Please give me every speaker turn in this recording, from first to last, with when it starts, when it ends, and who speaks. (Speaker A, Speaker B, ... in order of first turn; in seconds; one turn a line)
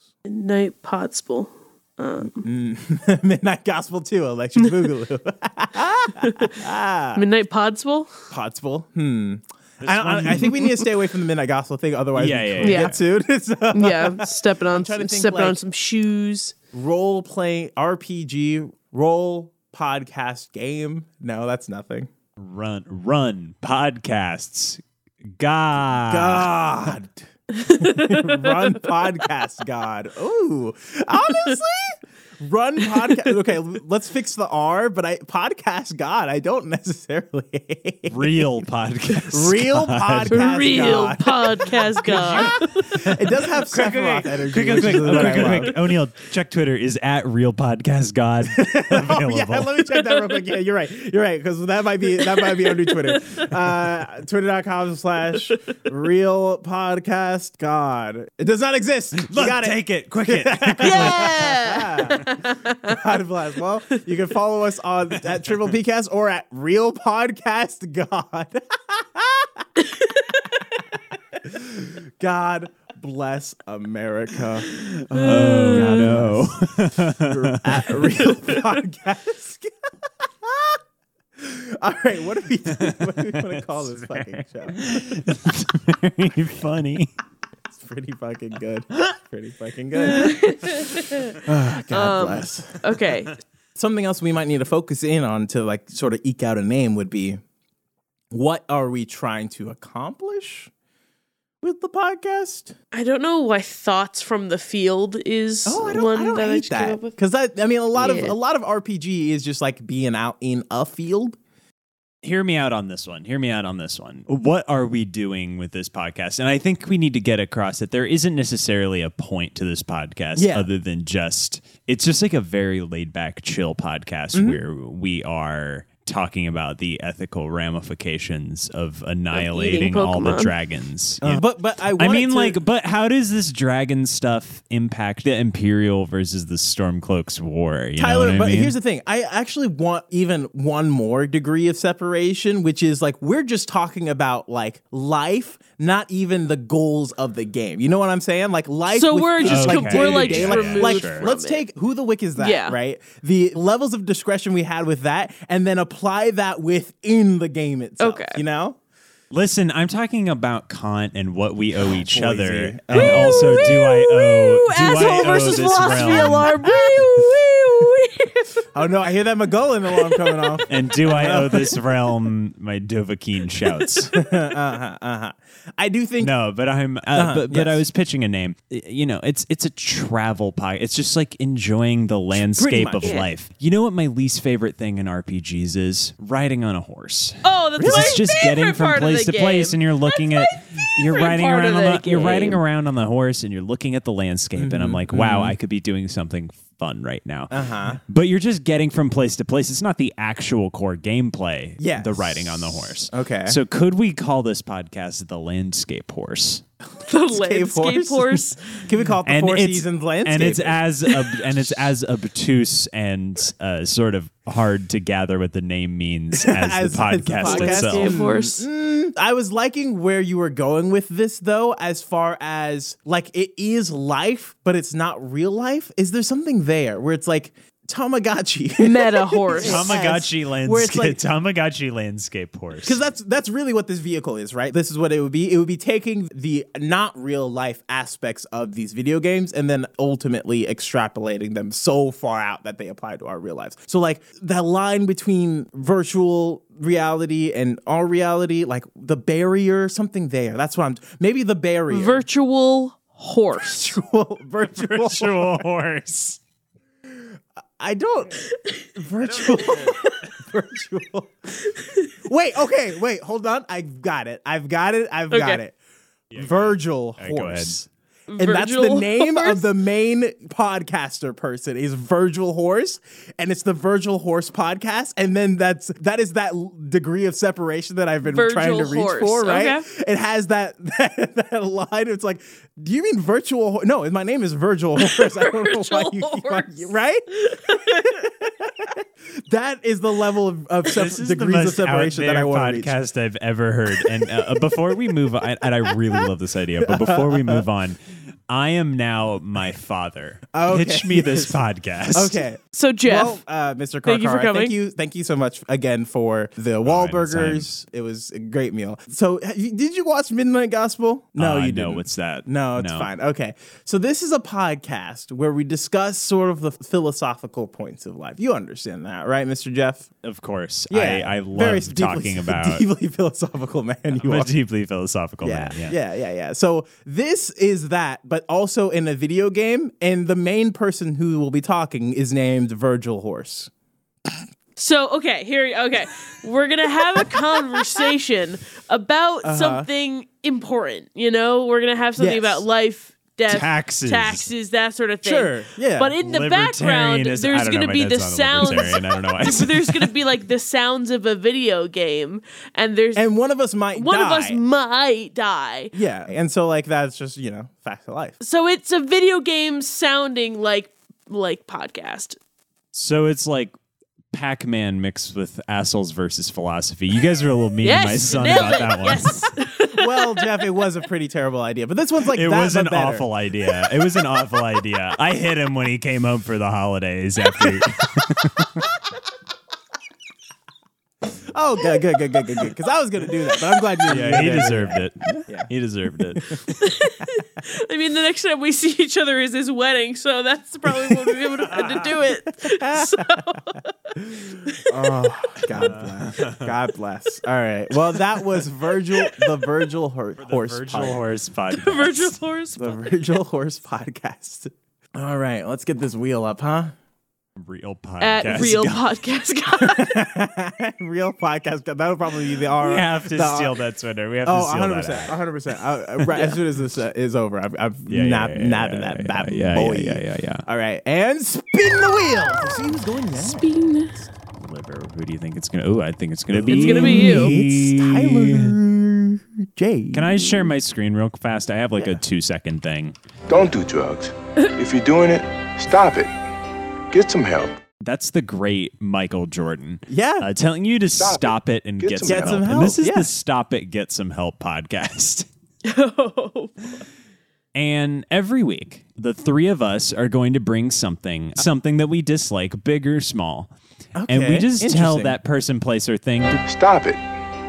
Speaker A: 0.3-2.4
Speaker B: 2.3-7.2
Speaker A: 6.2-6.6
Speaker A: 7.2-8.1
Speaker B: 8.3-15.6
Speaker C: 9.8-10.7
Speaker C: 12.2-13.0
Speaker A: 12.6-12.9
Speaker A: 13.7-16.5
Speaker B: 16.7-22.1
Speaker C: 22.4-24.8
Speaker C: 25.4-26.5
Speaker B: 26.0-45.8
Speaker A: 27.6-28.7
Speaker C: 38.1-41.1
Speaker A: 40.3-42.9
Speaker C: 42.1-49.8
Speaker B: 48.5-69.6
Speaker A: 52.4-53.4
Speaker C: 59.2-61.6
Speaker A: 60.8-63.0
Speaker C: 65.3-65.7
Speaker A: 69.8-70.4
Speaker B: 71.4-79.7
Speaker C: 74.7-78.3
Speaker A: 75.2-76.2
Speaker B: 80.4-80.8
Speaker B: 81.4-85.1
Speaker C: 82.7-87.1
Speaker B: 87.7-90.7
Speaker A: 90.0-91.4
Speaker B: 91.4-92.8
Speaker A: 91.9-93.3
Speaker B: 93.8-97.4
Speaker B: 98.3-100.7
Speaker B: 101.6-102.7
Speaker A: 102.9-107.1
Speaker B: 105.7-111.4
Speaker A: 108.0-108.4
Speaker C: 112.2-131.4
Speaker B: 120.4-120.7
Speaker B: 124.3-124.6
Speaker A: 129.3-130.5
Speaker B: 131.2-132.6
Speaker C: 132.0-138.8
Speaker B: 138.0-158.8
Speaker A: 148.9-151.6
Speaker C: 149.4-151.3
Speaker A: 152.4-152.8
Speaker A: 158.0-158.4
Speaker C: 159.3-166.6
Speaker B: 161.9-163.8
Speaker A: 162.9-168.7
Speaker B: 166.0-167.0
Speaker B: 168.7-171.8
Speaker A: 170.0-170.6
Speaker C: 170.7-174.2
Speaker B: 174.1-176.3
Speaker C: 176.2-206.6
Speaker B: 177.1-177.8
Speaker B: 182.3-183.2
Speaker A: 187.4-192.6
Speaker B: 187.8-188.2
Speaker B: 194.6-195.5
Speaker B: 197.5-198.0
Speaker B: 201.8-203.6
Speaker B: 207.0-210.9
Speaker A: 207.1-208.8
Speaker C: 209.2-218.2
Speaker B: 216.3-231.2
Speaker A: 217.4-218.7
Speaker A: 228.8-229.9
Speaker C: 229.6-233.0
Speaker B: 232.8-252.2
Speaker A: 251.9-254.0
Speaker B: 253.6-255.7
Speaker C: 254.6-256.4
Speaker B: 257.8-261.6
Speaker B: 262.2-265.8
Speaker A: 265.3-265.6
Speaker C: 266.3-267.9
Speaker B: 266.4-267.8
Speaker A: 268.3-269.7
Speaker B: 268.4-293.0
Speaker A: 278.3-279.9
Speaker A: 285.0-288.1
Speaker C: 290.9-302.4
Speaker B: 296.8-297.6
Speaker B: 300.5-301.6
Speaker B: 302.1-320.1
Speaker A: 302.7-303.4
Speaker A: 304.1-304.8
Speaker C: 306.9-307.8
Speaker C: 311.4-313.1
Speaker C: 320.2-322.9
Speaker B: 320.9-324.5
Speaker C: 324.1-326.0
Speaker B: 325.4-333.7
Speaker A: 334.8-353.2
Speaker B: 339.4-339.9
Speaker B: 342.2-342.6
Speaker C: 343.5-344.5
Speaker B: 345.2-346.1
Speaker C: 346.2-350.1
Speaker B: 353.2-354.6
Speaker A: 353.9-355.9
Speaker B: 355.9-358.4
Speaker A: 358.4-362.4
Speaker C: 362.9-363.8
Speaker C: 364.3-369.5
Speaker A: 367.8-370.6
Speaker B: 369.9-373.3
Speaker C: 372.3-378.9
Speaker B: 381.5-385.7
Speaker C: 384.1-386.6
Speaker A: 386.8-393.9
Speaker B: 391.0-391.3
Speaker C: 391.6-392.2
Speaker B: 392.5-393.6
Speaker B: 394.2-401.2
Speaker A: 394.6-394.9
Speaker C: 395.7-396.7
Speaker C: 400.4-402.4
Speaker A: 401.7-403.3
Speaker B: 402.8-406.9
Speaker C: 407.6-409.1
Speaker A: 408.2-410.2
Speaker B: 408.5-408.8
Speaker B: 409.8-413.8
Speaker C: 412.8-415.4
Speaker B: 414.4-423.7
Speaker C: 416.2-416.5
Speaker C: 418.1-420.6
Speaker A: 423.4-424.3
Speaker C: 424.6-428.8
Speaker B: 426.5-430.7
Speaker A: 426.7-427.5
Speaker C: 430.1-433.2
Speaker D: 433.5-436.3
Speaker D: 437.1-437.8
Speaker C: 438.0-445.5
Speaker B: 440.1-440.5
Speaker D: 441.2-442.8
Speaker B: 442.2-443.3
Speaker A: 445.8-447.1
Speaker C: 447.8-453.7
Speaker B: 454.2-455.4
Speaker C: 454.3-456.6
Speaker D: 456.7-457.2